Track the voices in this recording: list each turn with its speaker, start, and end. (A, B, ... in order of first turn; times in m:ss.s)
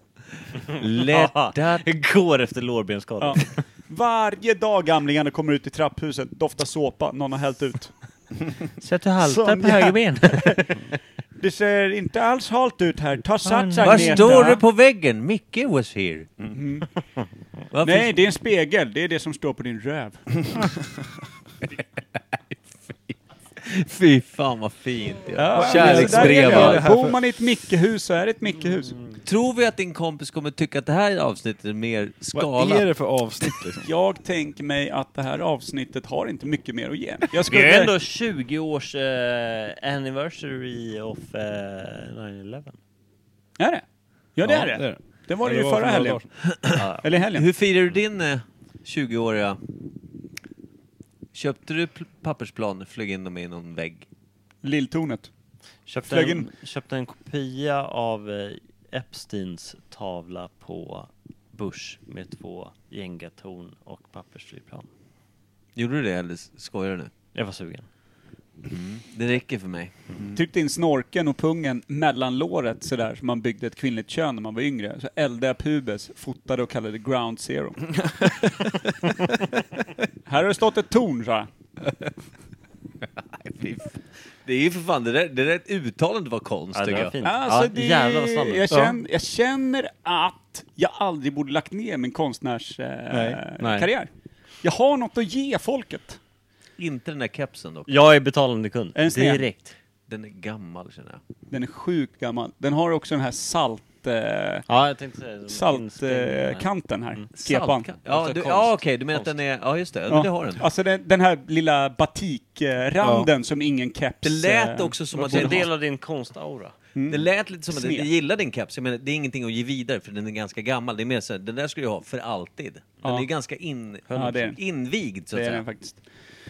0:00.7-0:01.8 A
0:01.0-0:03.6 B
0:03.2-0:07.9 C
0:08.8-0:10.8 B
0:09.2-0:10.8 C
0:11.4-0:14.6 C
0:13.4-0:14.6 B
0:13.8-0:16.3 A
0:16.5-0:16.9 C
0:17.7-0:18.1 A
0:17.8-0:20.6 C
0:23.6-0:26.9 A
0:25.4-0:29.0 C
0:25.5-0:27.2 D
0:29.2-0:32.9 A
0:32.4-0:33.9 D
0:33.8-0:37.9 C
0:37.4-0:42.8 B
0:44.4-0:46.2 C
0:44.4-0:46.3 D
0:46.8-0:47.0 B
0:47.0-0:47.5 C
0:47.3-0:49.6 A
0:51.3-0:54.1 A
0:54.6-0:55.3 C
0:55.9-1:04.9 B
0:56.1-0:56.5 C
1:05.8-1:07.1 A
1:07.3-1:07.9 B
1:08.6-1:10.0 A
1:10.3-1:18.1 C
1:20.3-1:21.5 C
1:23.3-1:27.2 A
1:26.7-1:28.7 B
1:27.2-1:34.1 C
1:28.7-1:29.0 D
1:33.1-1:33.4 D
1:33.6-1:33.9 B
1:34.6-1:36.2 C
1:36.8-1:37.9 A
1:37.9-1:39.7 B
1:39.0-1:39.4 C
1:40.1-1:41.2 A
1:41.5-1:44.6 C
1:44.7-1:47.3 B
1:45.5-1:47.9 C
1:47.4-1:50.6 A
1:48.0-1:49.3 B
1:50.1-1:55.7 C
1:53.0-1:53.3 D
1:54.2-1:55.7 A
1:55.2-1:56.7 B
1:57.0-1:58.1 C
1:57.1-2:05.6 A
2:04.1-2:04.6 C
2:05.3-2:06.0 C